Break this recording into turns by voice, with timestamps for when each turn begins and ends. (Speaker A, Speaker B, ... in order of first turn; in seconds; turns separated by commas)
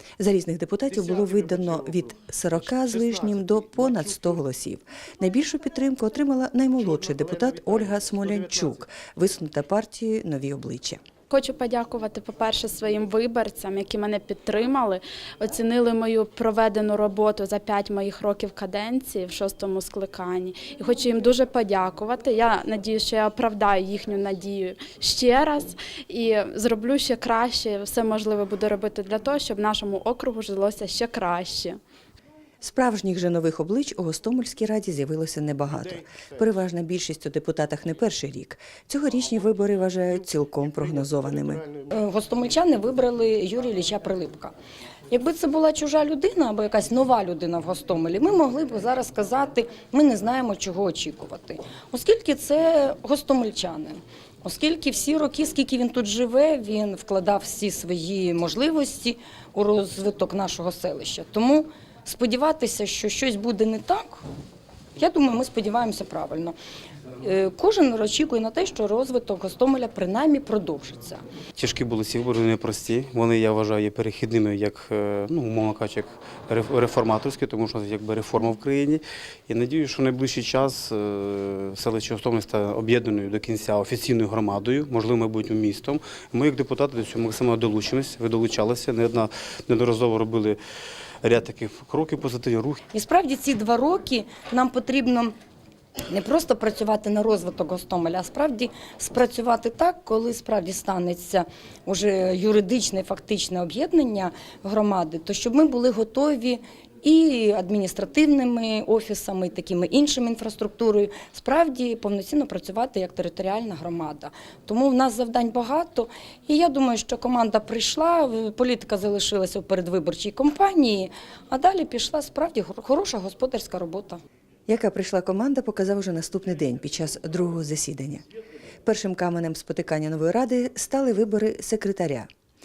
Speaker A: 0.2-11.0, Speaker B: 11.3-31.8, Speaker A: 32.6-41.7, Speaker C: 41.9-44.5, Speaker C: 45.1-64.2, Speaker C: 65.0-66.5, Speaker C: 67.2-71.2, Speaker D: 71.6-90.6, Speaker D: 91.2-92.8, Speaker C: 92.9-95.3, Speaker C: 96.1-124.2, Speaker A: 124.7-128.2, Speaker A: 128.8-132.3